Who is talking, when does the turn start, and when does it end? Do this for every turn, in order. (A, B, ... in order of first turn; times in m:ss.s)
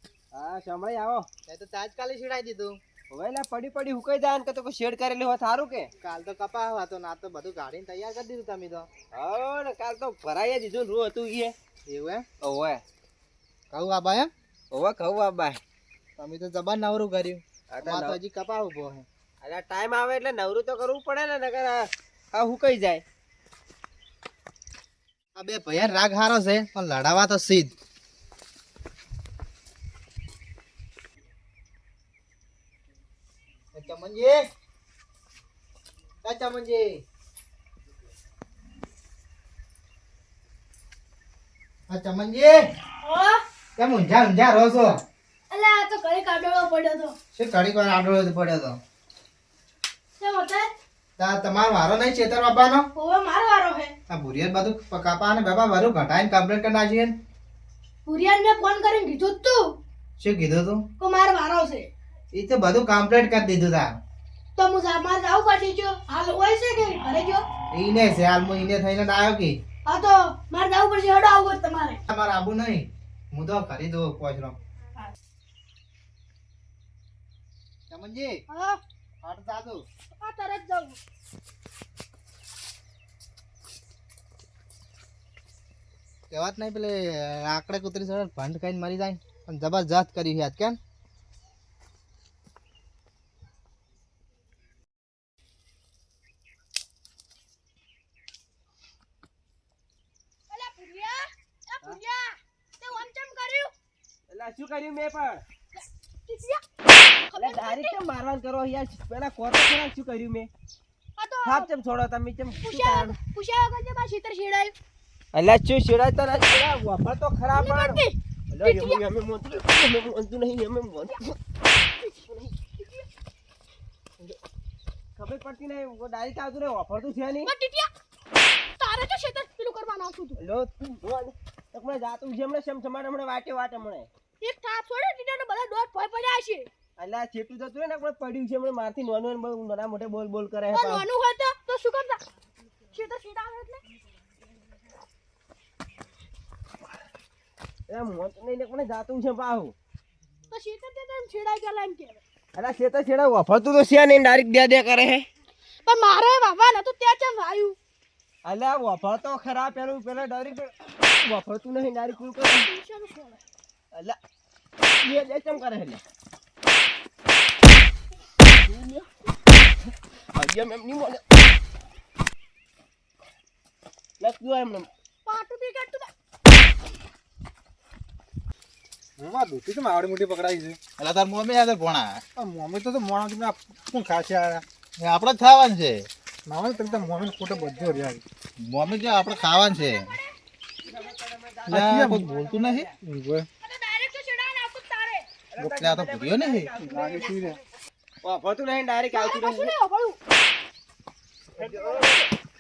0:00.3-0:01.3 A
0:01.5-0:02.8 B
0:03.1-0:05.9 A
0:06.0-0:08.9 B
0:09.1-0:11.5 A
0:11.9-0:12.2 B
0:12.4-0:12.8 A
0:13.7-0:14.3 B
0:14.7-0:15.6 A
0:16.2-0:19.1 B
0:17.7-0:18.2 A
0:19.4-0:23.0 A
0:25.4-0:27.8 B
0:33.7-0:34.4 B
0:36.2-0:37.0 B
0:41.9-0:42.6 B
0:43.0-0:43.4 C
0:43.8-0:45.0 B
0:45.5-0:47.2 C
0:47.3-0:48.8 B
0:50.2-0:50.7 C
0:51.2-0:52.9 B
0:53.0-0:54.0 C
0:54.1-0:57.1 B
0:58.0-0:59.6 C
1:00.2-1:00.8 B
1:01.0-1:01.9 C
1:02.3-1:04.0 B
1:04.6-1:07.4 C
1:07.7-1:09.6 B
1:09.9-1:12.0 C
1:12.1-1:14.6 B
1:17.9-1:18.4 B
1:18.5-1:18.8 C
1:19.2-1:19.8 B
1:20.2-1:21.0 C
1:26.3-1:30.8 B
1:40.5-1:43.7 C
1:44.3-1:45.4 A
1:45.8-1:46.6 C
1:47.3-1:48.0 C
1:47.4-1:50.5 A
1:51.2-1:51.7 C
1:51.4-1:53.2 A
1:52.6-1:54.7 C
1:55.3-2:01.4 A
1:57.5-1:59.0 C
2:02.2-2:03.0 A
2:05.2-2:07.5 A
2:07.5-2:07.9 C
2:08.8-2:10.4 C
2:10.4-2:14.1 A
2:14.4-2:16.7 C
2:17.0-2:21.1 A
2:20.7-2:22.2 C
2:22.9-2:23.8 C
2:27.9-2:29.7 A
2:30.5-2:32.2 C
2:32.6-2:35.3 A
2:35.9-2:37.8 C
2:38.4-2:42.7 A
2:42.5-2:43.4 C
2:45.0-2:46.0 A
2:48.6-2:49.1 A
2:50.4-2:51.2 A
2:54.2-2:54.9 A
2:55.3-2:56.1 C
2:59.2-3:00.8 D
3:01.0-3:02.2 E
3:02.4-3:04.6 D
3:05.0-3:06.1 E
3:06.5-3:08.2 D
3:06.9-3:08.0 A
3:08.6-3:10.2 E
3:09.0-3:10.3 C
3:10.8-3:13.0 A
3:10.9-3:11.1 C
3:11.7-3:13.5 D
3:11.7-3:12.9 E
3:13.6-3:15.4 C
3:15.5-3:17.6 A
3:15.6-3:16.7 E
3:16.8-3:17.6 D
3:18.2-3:19.8 A
3:19.1-3:20.2 C
3:21.6-3:22.3 A